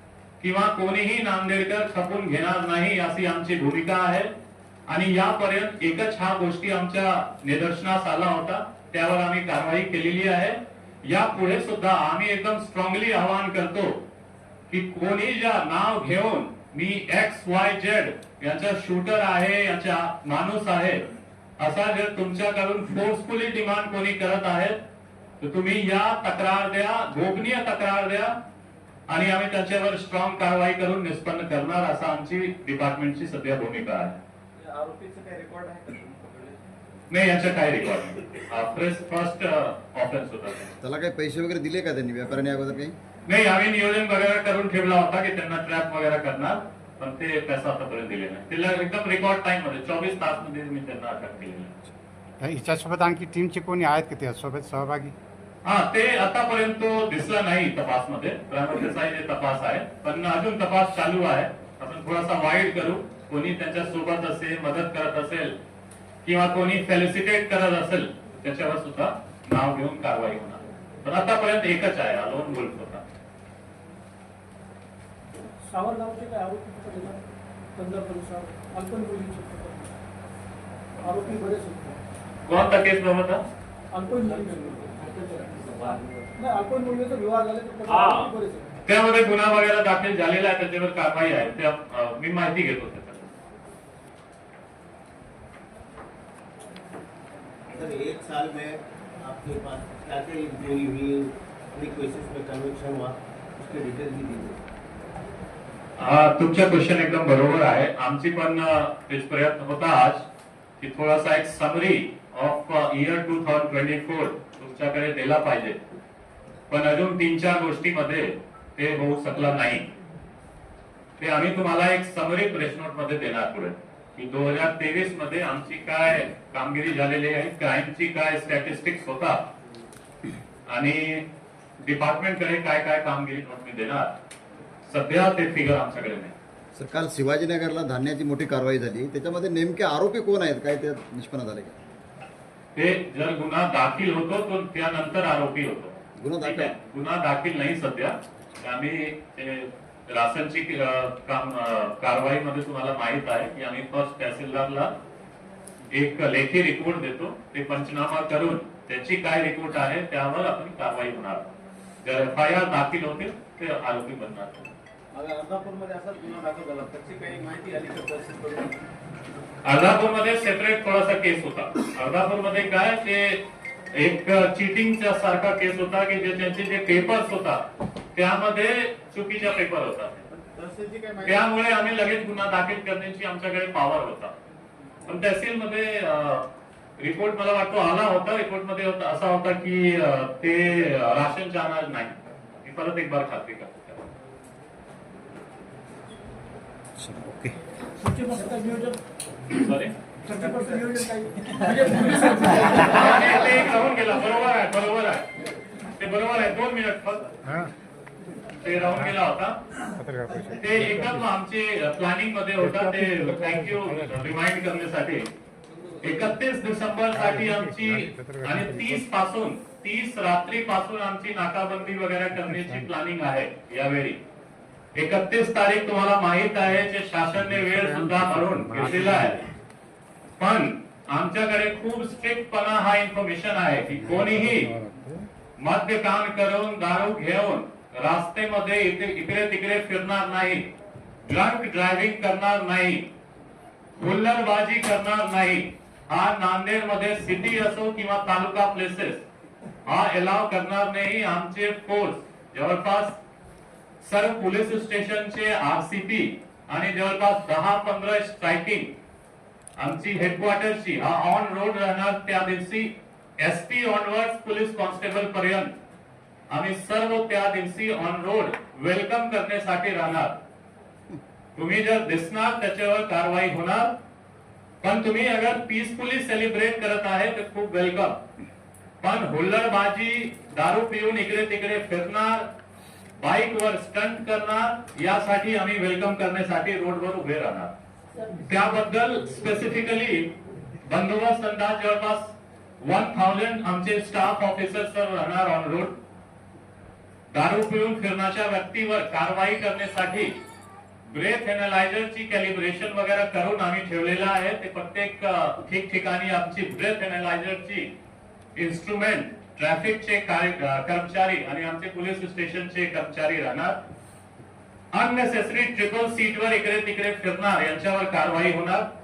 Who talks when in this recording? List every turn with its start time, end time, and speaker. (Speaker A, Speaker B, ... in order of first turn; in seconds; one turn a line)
Speaker A: 0.4-4.3
Speaker A: 4.9-14.0
Speaker A: 14.7-21.0
Speaker A: 21.6-24.8
Speaker A: 25.4-28.4
Speaker A: 29.1-34.2
Speaker B: 34.6-36.6
Speaker A: 37.1-40.7
Speaker C: 40.8-43.0
Speaker A: 43.3-51.8
Speaker D: 52.4-55.1
Speaker A: 55.6-65.5
Speaker A: 66.2-73.0
Speaker E: 75.6-77.2
Speaker E: 77.8-79.9
Speaker E: 81.0-82.0
Speaker A: 82.5-83.5
Speaker E: 83.9-85.6
Speaker B: 84.3-86.2
Speaker E: 86.4-88.7
Speaker A: 87.9-88.3
Speaker A: 88.8-93.3
Speaker B: 97.7-104.6
Speaker A: 106.0-110.3
Speaker A: 110.8-115.8
Speaker A: 116.7-119.9
Speaker A: 121.2-129.4
Speaker A: 130.7-131.2
Speaker A: 131.8-134.1
Speaker A: 134.9-136.3
Speaker C: 136.8-141.8
Speaker A: 142.8-154.9
Speaker C: 146.2-146.7
Speaker A: 155.9-161.5
Speaker A: 162.0-164.7
Speaker B: 165.1-168.8
Speaker A: 169.6-173.4
Speaker A: 173.9-177.6
Speaker A: 178.2-180.2
Speaker B: 180.3-181.5
Speaker A: 181.2-184.3
Speaker A: 185.1-186.4
Speaker A: 187.0-194.0
Speaker C: 197.0-197.5
Speaker E: 198.0-199.0
Speaker A: 199.5-199.9
Speaker E: 200.2-203.1
Speaker A: 202.8-205.3
Speaker A: 206.0-207.3
Speaker D: 207.4-207.7
Speaker A: 208.6-209.6
Speaker D: 210.0-211.3
Speaker A: 210.6-215.3
Speaker D: 212.6-214.4
Speaker A: 216.0-224.2
Speaker D: 217.1-219.0
Speaker D: 222.3-222.9
Speaker A: 224.9-229.4
Speaker D: 227.4-229.4
Speaker A: 230.4-234.7
Speaker D: 233.9-235.3
Speaker A: 235.6-240.7
Speaker A: 241.3-243.1
Speaker A: 244.0-249.2
Speaker A: 249.9-253.2
Speaker A: 254.0-258.9
Speaker A: 259.8-265.7
Speaker A: 266.5-270.4
Speaker A: 271.6-273.9
Speaker A: 274.8-278.2
Speaker A: 279.0-282.5
Speaker A: 283.2-287.7
Speaker A: 288.3-290.3
Speaker A: 290.9-295.9
Speaker A: 297.3-300.3
Speaker A: 301.1-307.9
Speaker A: 308.6-313.8
Speaker A: 314.9-318.9